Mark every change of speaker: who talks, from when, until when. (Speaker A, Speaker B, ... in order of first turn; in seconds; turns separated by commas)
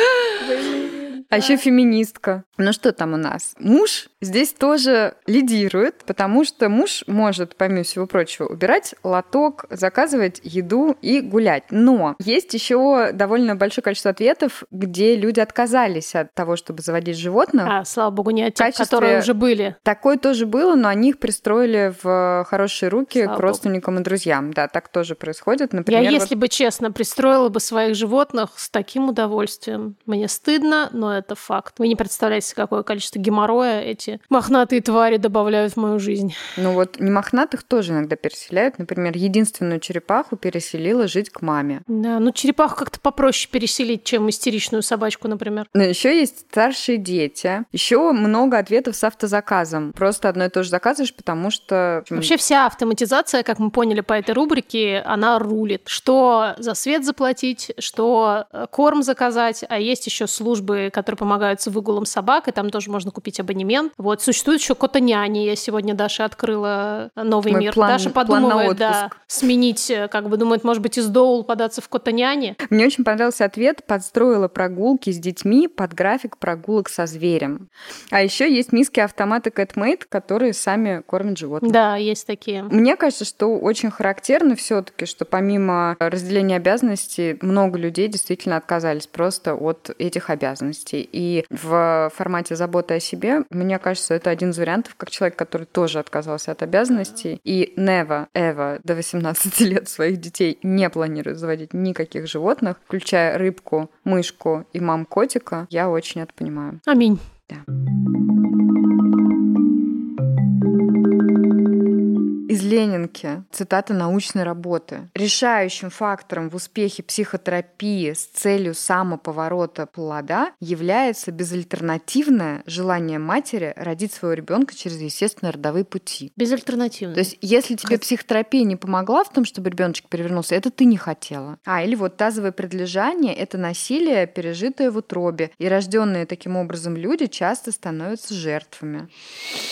Speaker A: 0.4-0.7, Speaker B: 0.4-1.6, Speaker A: 1.3-17.7, Speaker B: 17.6-19.8, Speaker A: 18.6-19.3, Speaker A: 19.8-26.3, Speaker B: 23.1-23.6, Speaker B: 25.9-36.4, Speaker A: 36.5-41.8, Speaker B: 41.9-45.7, Speaker A: 45.7-52.3, Speaker B: 52.1-72.6, Speaker A: 67.5-69.1, Speaker A: 72.7-81.8, Speaker B: 81.6-82.7, Speaker A: 82.7-106.8, Speaker B: 106.9-107.2, Speaker A: 112.5-126.3, Speaker B: 126.4-127.3, Speaker A: 127.1-139.1